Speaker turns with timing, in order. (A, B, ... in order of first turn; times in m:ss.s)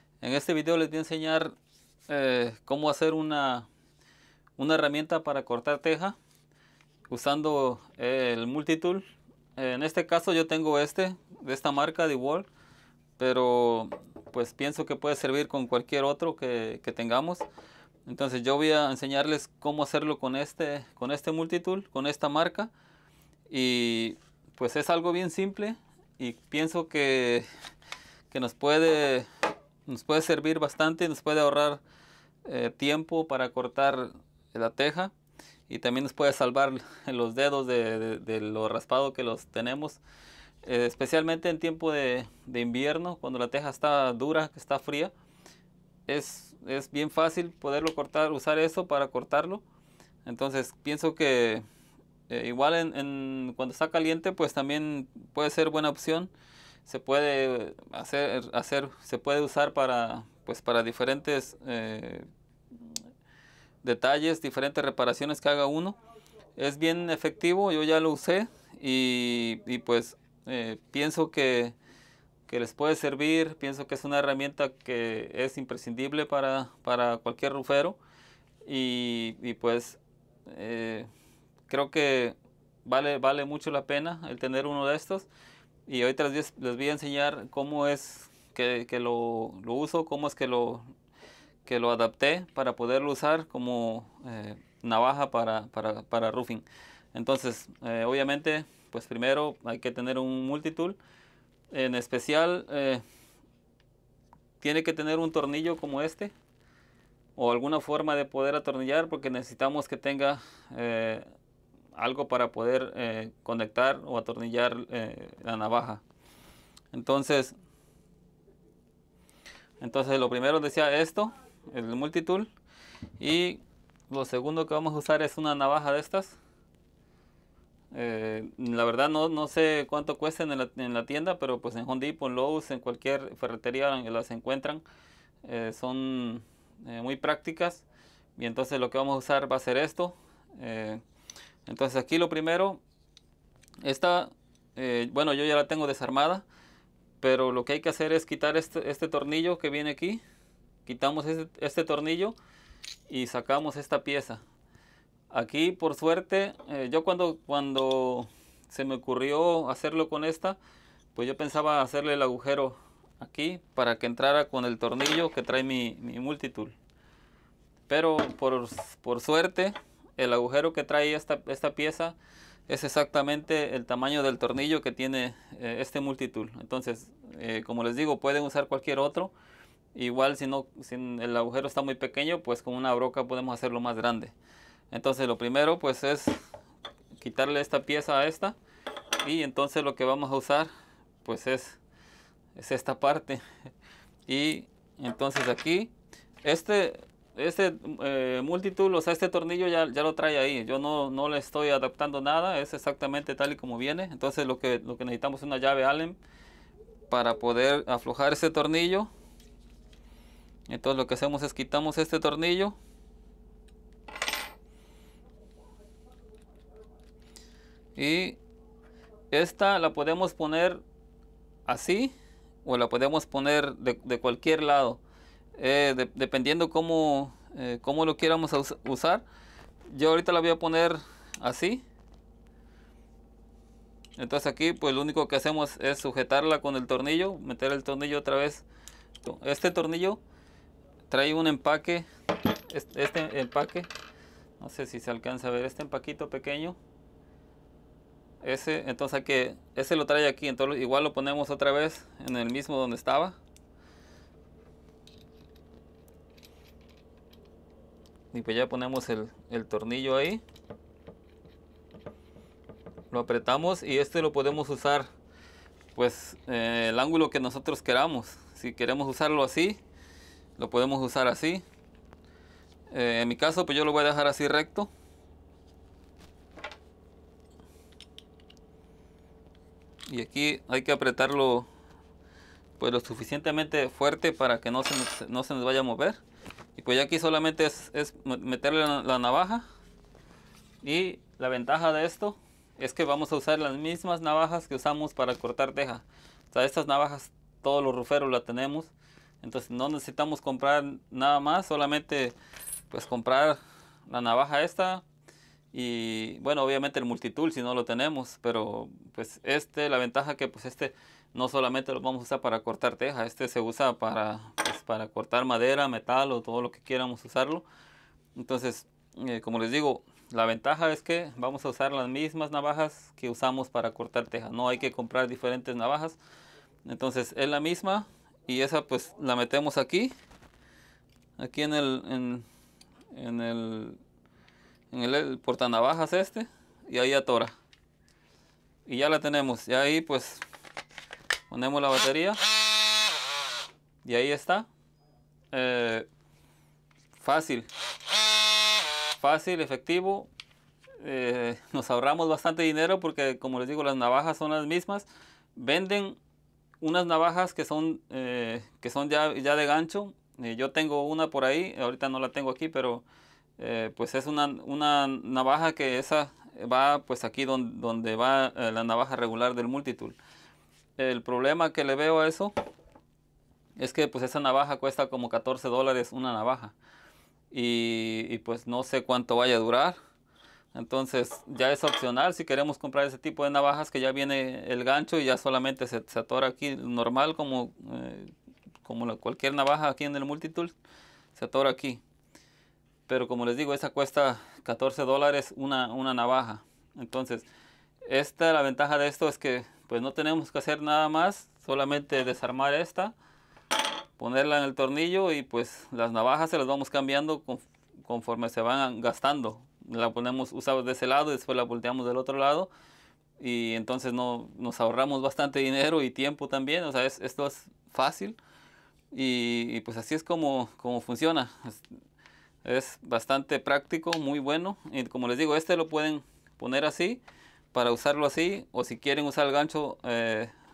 0:00.2-0:01.6 A
0:02.1-0:03.7 A
0:04.6-0:06.2 A
0:07.1-0:09.0 A
0:09.6-0:12.5 A
0:13.2-0:17.4 A
0:18.0-0:22.7 A
0:23.5-0:27.5 A
0:28.3-0:29.3 A
0:29.8-0:31.8 A
0:32.4-0:35.1 A
0:35.7-0:40.0 A
0:40.6-0:45.1 A
0:46.1-0:49.6 A
0:50.2-0:51.6 A
0:52.3-0:56.3 A
0:56.8-1:02.3 A
1:03.8-1:06.0 A
1:06.6-1:11.7 A
1:12.5-1:18.0 A
1:18.6-1:21.1 A
1:21.7-1:25.3 A
1:25.9-1:30.8 A
1:31.6-1:41.0 A
1:41.7-1:43.0 A
1:44.6-1:46.3 A
1:47.4-1:51.3 A
1:52.0-1:56.0 A
1:56.9-1:57.6 A
1:59.8-2:02.5 A
2:03.2-2:06.4 A
2:07.9-2:14.8 A
2:15.4-2:17.8 A
2:18.4-2:21.0 A
2:21.6-2:22.8 A
2:23.8-2:26.4 A
2:27.2-2:30.2 A
2:30.8-2:32.4 A
2:33.1-2:34.4 A
2:35.3-2:40.6 A
2:41.1-2:46.7 A
2:47.9-2:52.2 A
2:52.7-2:59.3 A
2:59.9-3:04.3 A
3:04.9-3:06.4 A
3:07.2-3:08.6 A
3:09.2-3:10.7 A
3:11.2-3:11.8 A
3:12.6-3:13.4 A
3:14.3-3:15.9 A
3:16.4-3:26.2 A
3:27.1-3:29.1 A
3:30.7-3:32.8 A
3:38.0-3:38.4 A
3:39.3-3:40.8 A
3:41.6-3:42.1 A
3:42.6-3:45.0 A
3:45.6-3:49.2 A
3:49.9-3:51.8 A
3:54.2-3:58.6 A
3:59.2-4:00.2 A
4:01.1-4:02.0 A
4:02.7-4:03.9 A
4:04.6-4:06.8 A
4:08.4-4:13.4 A
4:18.3-4:20.4 A
4:23.1-4:25.1 A
4:25.9-4:29.8 A
4:30.6-4:31.6 A
4:32.9-4:34.9 A
4:40.1-4:41.7 A
4:42.8-4:46.2 A
4:46.8-4:49.6 A
4:50.8-5:02.4 A
5:02.9-5:05.0 A
5:05.7-5:17.6 A
5:18.4-5:26.2 A
5:26.8-5:30.1 A
5:31.4-5:32.4 A
5:33.1-5:34.0 A
5:34.9-5:37.5 A
5:38.9-5:40.4 A
5:41.5-5:42.4 A
5:44.0-5:44.7 A
5:45.5-5:46.1 A
5:47.2-5:47.7 A
5:49.2-5:50.3 A
5:51.0-5:56.2 A
5:56.8-6:03.0 A
6:03.6-6:10.2 A
6:11.0-6:12.5 A
6:13.8-6:16.7 A
6:17.5-6:20.0 A
6:20.7-6:28.3 A
6:28.8-6:30.7 A
6:31.3-6:32.0 A
6:33.1-6:37.5 A
6:38.1-6:43.1 A
6:44.2-6:52.7 A
6:53.4-6:58.4 A
6:59.1-7:01.9 A
7:02.6-7:10.5 A